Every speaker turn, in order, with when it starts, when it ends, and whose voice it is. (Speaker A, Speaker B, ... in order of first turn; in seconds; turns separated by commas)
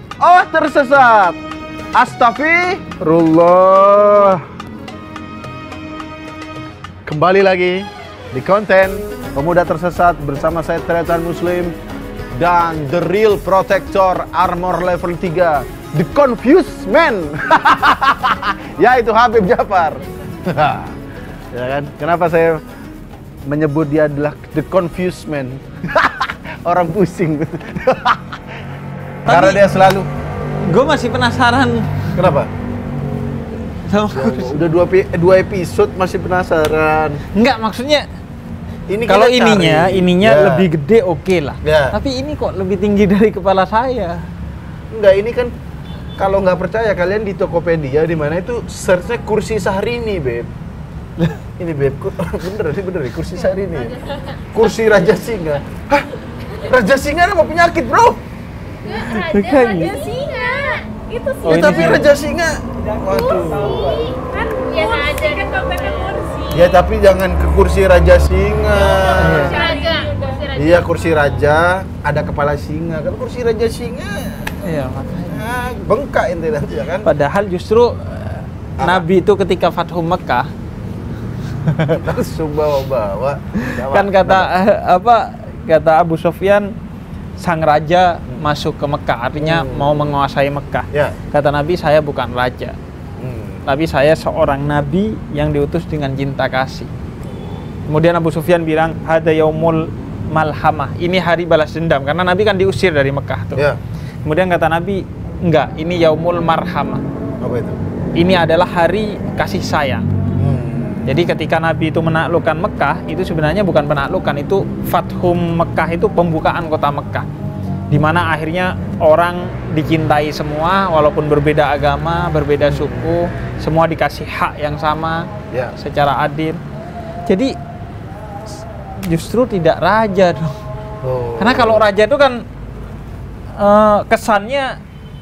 Speaker A: 0.2-1.4, Speaker A: 1.9-4.4, Speaker A: 7.0-11.7, Speaker A: 12.3-21.0, Speaker A: 21.5-22.6, Speaker A: 23.4-28.4, Speaker A: 29.2-30.1, Speaker B: 29.3-29.6, Speaker B: 30.6-32.2, Speaker A: 32.1-32.5, Speaker B: 33.9-34.6, Speaker A: 34.1-37.2, Speaker B: 37.3-38.0, Speaker A: 38.9-40.7, Speaker B: 39.1-44.2, Speaker A: 41.6-42.0, Speaker A: 44.9-45.5, Speaker A: 46.2-50.5, Speaker A: 51.6-58.2, Speaker B: 58.8-60.1, Speaker C: 58.8-62.1, Speaker B: 61.4-62.1, Speaker A: 61.4-64.1, Speaker C: 63.1-66.7, Speaker A: 66.5-69.7, Speaker C: 68.8-71.1, Speaker B: 69.1-69.7, Speaker A: 70.5-74.5, Speaker B: 74.6-75.4, Speaker A: 75.3-77.1, Speaker B: 77.0-80.5, Speaker A: 78.8-79.0, Speaker B: 81.7-82.0, Speaker A: 82.0-84.5, Speaker B: 83.6-86.7, Speaker B: 87.4-92.8, Speaker A: 89.4-89.9, Speaker A: 93.2-93.6, Speaker B: 93.6-96.9, Speaker B: 97.9-103.6, Speaker B: 104.2-107.0, Speaker A: 107.4-107.8, Speaker B: 108.2-110.0, Speaker A: 110.4-111.1, Speaker B: 111.0-117.3, Speaker B: 117.9-125.2, Speaker A: 122.7-123.0, Speaker B: 125.8-126.6, Speaker B: 127.3-127.5, Speaker B: 129.1-130.6, Speaker A: 131.0-131.8, Speaker B: 131.4-132.4, Speaker B: 133.6-134.8